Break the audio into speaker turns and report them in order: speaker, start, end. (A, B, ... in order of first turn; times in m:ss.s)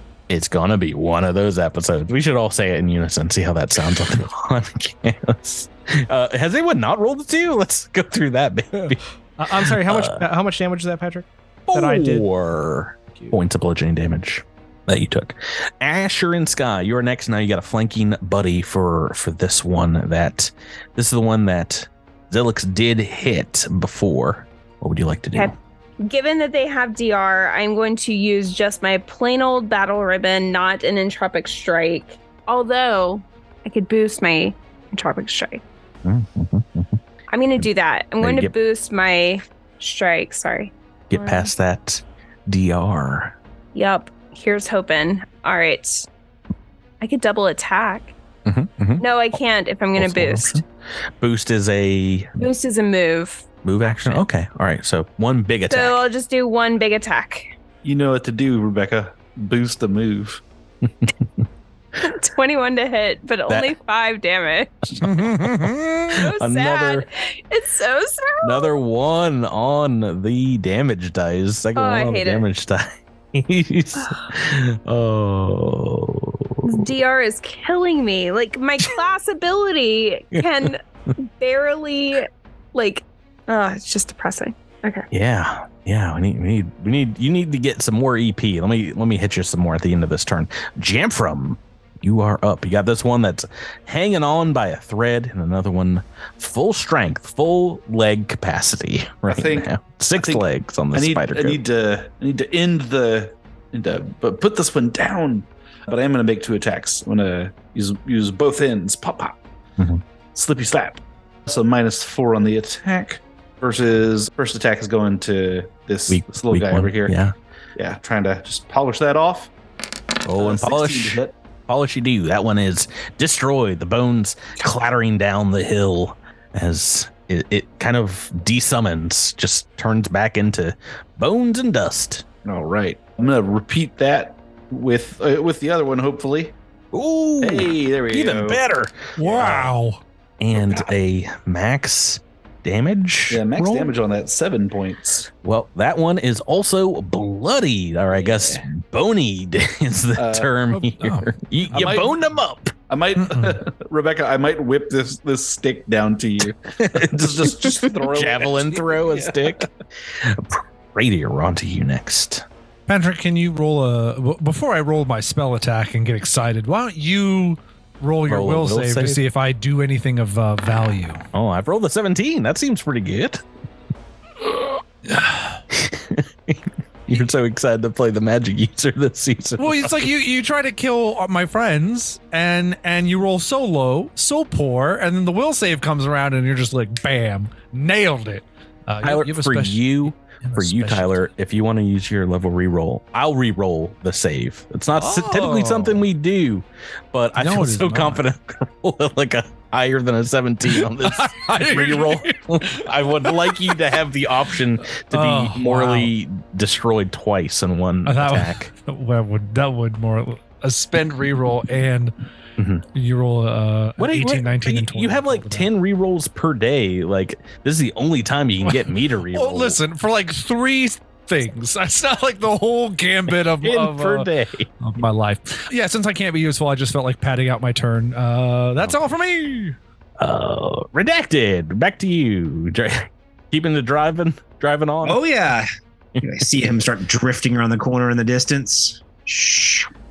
0:00.3-0:10.3 A
0:09.4-0:12.3 B
0:11.7-0:25.6 A
0:25.4-0:35.6 C
0:36.0-0:37.0 A
0:37.3-0:41.5 C
0:38.2-0:38.5 A
0:41.1-0:43.4 A
0:43.8-0:46.1 C
0:47.0-0:48.1 C
0:48.5-0:49.0 A
0:49.0-0:50.6 C
0:50.0-0:50.7 A
0:51.2-0:52.4 A
0:52.4-0:53.4 C
0:53.6-0:56.0 A
0:55.7-0:57.5 C
0:57.8-1:00.4 D
1:00.8-1:01.1 A
1:02.0-1:04.7 C
1:04.9-1:07.1 A
1:05.0-1:06.1 E
1:06.1-1:08.8 C
1:08.4-1:16.9 A
1:11.8-1:12.4 C
1:14.0-1:14.2 C
1:16.6-1:25.1 C
1:20.3-1:20.7 A
1:25.1-1:41.6 A
1:39.3-1:49.4 D
1:50.4-1:57.2 D
1:56.1-1:57.4 A
1:57.8-1:59.5 D
2:00.2-2:12.2 A
2:00.4-2:01.3 D
2:12.4-2:16.5 D
2:16.9-2:19.7 A
2:17.4-2:18.6 D
2:19.2-2:20.0 E
2:20.4-2:24.0 A
2:23.3-2:25.3 D
2:25.4-2:32.7 A
2:28.1-2:28.6 D
2:30.2-2:30.5 D
2:30.7-2:31.3 E
2:31.7-2:32.3 D
2:32.9-2:39.7 D
2:33.2-2:33.6 E
2:36.8-2:42.4 A
2:42.9-2:51.2 E
2:48.3-2:49.2 A
2:51.3-2:53.4 A
2:55.1-2:55.6 E
2:55.7-3:00.1 A
2:59.6-3:11.2 E
3:09.0-3:28.7 A
3:15.0-3:16.0 E
3:17.4-3:18.2 E
3:20.8-3:23.8 E
3:25.0-3:26.1 E
3:28.1-3:32.1 E
3:32.6-3:32.8 A
3:32.9-3:35.7 E
3:34.0-3:39.8 A
3:38.6-3:44.3 E
3:43.6-3:44.7 A
3:44.8-3:49.8 E
3:50.2-3:55.2 A
3:55.0-3:55.7 F
3:56.2-3:56.8 A
3:56.2-3:59.9 F